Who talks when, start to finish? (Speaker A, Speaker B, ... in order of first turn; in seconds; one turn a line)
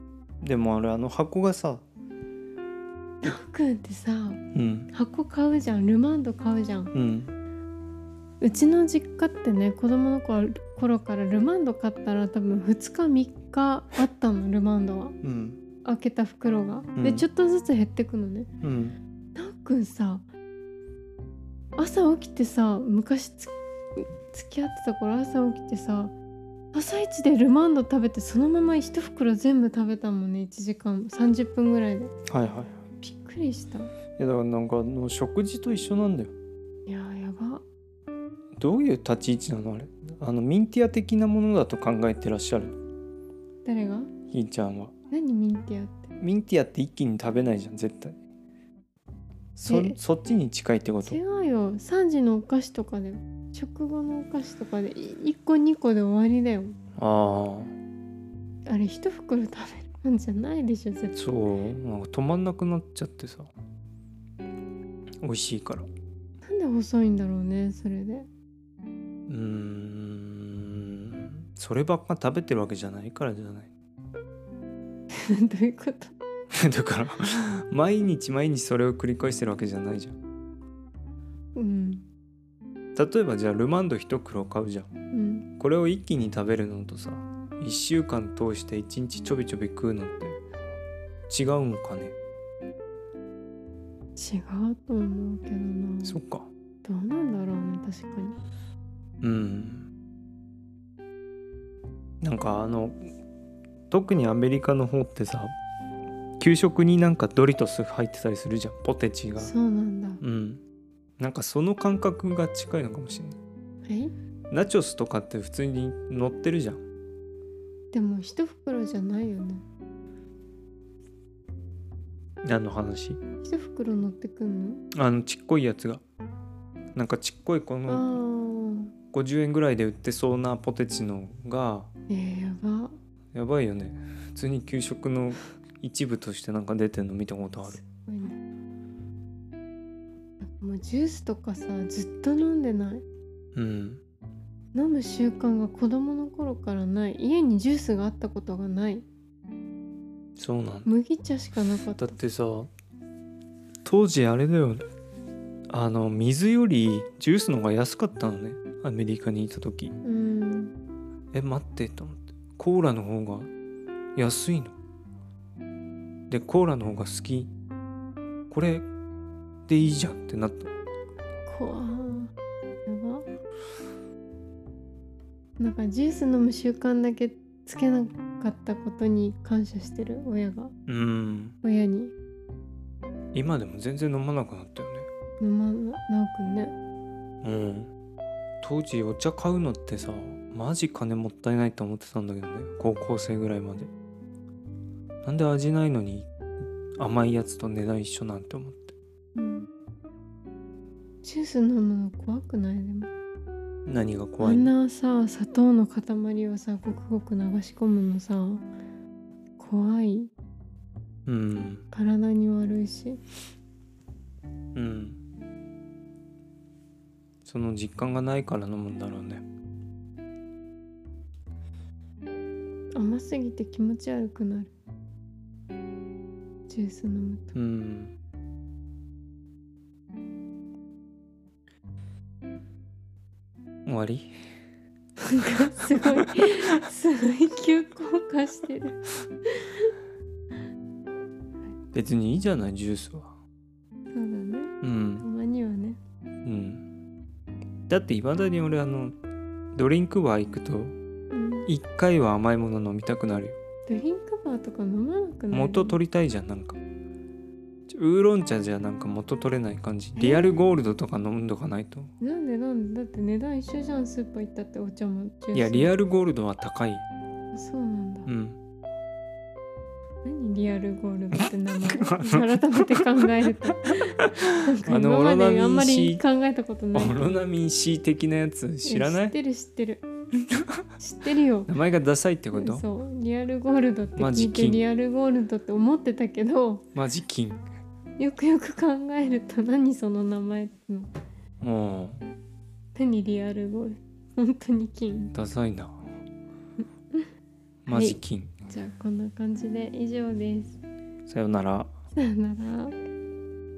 Speaker A: 0.4-1.8
Speaker B: 3.2-4.4
Speaker A: 4.5-4.9
Speaker B: 4.9-6.9
Speaker A: 6.9-7.3
Speaker B: 8.4-15.2
Speaker A: 15.2-15.6
Speaker B: 15.8-18.5
Speaker A: 17.0-17.3
Speaker A: 18.6-19.0
Speaker B: 19.4-20.3
Speaker B: 21.8-26.1
Speaker B: 26.7-32.1
Speaker A: 32.3-32.8
Speaker B: 33.0-33.9
Speaker A: 34.2-36.3
Speaker B: 36.9-37.6
Speaker A: 38.6-42.8
Speaker B: 43.6-44.1
Speaker A: 44.3-44.9
Speaker B: 45.1-46.1
Speaker A: 46.2-48.2
Speaker A: 49.6-51.2
Speaker B: 49.7-50.0
Speaker B: 51.0-56.8
Speaker A: 57.0-57.7
Speaker B: 58.7-61.2
Speaker A: 61.1-63.5
Speaker A: 65.2-65.9
Speaker B: 66.4-68.3
Speaker A: 69.3-73.7
Speaker B: 75.1-76.1
Speaker A: 76.5-80.2
Speaker B: 81.5-82.0
Speaker A: 83.0-84.9
Speaker B: 85.1-85.5
Speaker A: 85.6-90.4
Speaker A: 91.3-92.2
Speaker B: 94.2-96.2
Speaker A: 96.0-96.5
Speaker B: 96.8-98.4
Speaker A: 99.2-99.9
Speaker A: 102.2-103.0
Speaker A: 103.9-105.5
Speaker A: 106.4-109.5
Speaker B: 109.4-110.2
Speaker A: 110.2-110.6
Speaker A: 111.2-113.4
Speaker B: 113.9-114.1
Speaker A: 114.5-116.8
Speaker B: 117.9-119.6
Speaker A: 122.4-123.2
Speaker B: 123.4-124.8
Speaker A: 124.9-126.0
Speaker A: 127.0-128.2
Speaker B: 127.9-128.9
Speaker A: 129.1-131.9
Speaker B: 132.1-132.9
Speaker A: 133.3-137.8
Speaker B: 137.7-138.4
Speaker B: 140.4-143.0
Speaker A: 143.6-144.0
Speaker B: 144.7-149.1
Speaker A: 150.4-150.9
Speaker B: 150.9-152.1
Speaker A: 152.0-152.7
Speaker A: 153.8-154.8
Speaker A: 155.7-159.9
Speaker B: 160.0-160.7
Speaker A: 161.3-163.5
Speaker A: 164.2-164.8
Speaker A: 166.3-167.5
Speaker A: 168.5-168.9
Speaker A: 169.7-170.7
Speaker B: 171.5-172.3
Speaker B: 172.9-173.3
Speaker B: 175.6-180.7
Speaker A: 180.9-181.6
Speaker B: 181.6-182.1
Speaker A: 183.3-185.1
Speaker B: 185.4-186.7
Speaker A: 187.4-187.9
Speaker A: 188.6-193.9
Speaker A: 195.2-196.3
Speaker A: 197.0-198.9
Speaker B: 199.3-199.7
Speaker B: 201.2-203.1
Speaker A: 203.9-204.7
Speaker B: 204.4-208.7
Speaker B: 209.6-210.3
Speaker A: 211.3-211.8
Speaker B: 211.9-213.2
Speaker A: 214.8-215.2
Speaker A: 217.4-219.4
Speaker B: 222.9-224.7
Speaker B: 226.7-227.6
Speaker A: 227.6-228.1
Speaker A: 233.9-234.3
Speaker B: 235.2-239.9
Speaker A: 236.0-236.7
Speaker A: 241.9-243.4
Speaker B: 244.1-246.0
Speaker A: 244.8-245.2
Speaker A: 246.4-246.8
Speaker A: 247.9-249.2
Speaker A: 249.8-251.0
Speaker B: 251.3-251.7
Speaker A: 251.7-253.6
Speaker B: 253.9-256.0
Speaker A: 255.5-256.8
Speaker A: 257.9-262.1
Speaker B: 260.2-260.6
Speaker B: 262.2-265.9
Speaker A: 265.5-267.0
Speaker B: 267.5-268.3
Speaker A: 268.3-268.6
Speaker B: 270.2-277.3
Speaker A: 271.9-276.2
Speaker A: 276.9-279.4
Speaker B: 278.9-280.1
Speaker A: 280.5-280.8
Speaker B: 281.0-281.7
Speaker A: 281.7-282.9
Speaker B: 282.5-286.9
Speaker A: 284.2-284.8
Speaker A: 286.9-287.6
Speaker B: 288.2-291.1
Speaker A: 291.6-292.2
Speaker B: 292.9-295.3
Speaker A: 295.3-296.0
Speaker A: 297.9-298.5
Speaker B: 297.9-300.8
Speaker A: 301.3-301.9
Speaker B: 302.1-302.9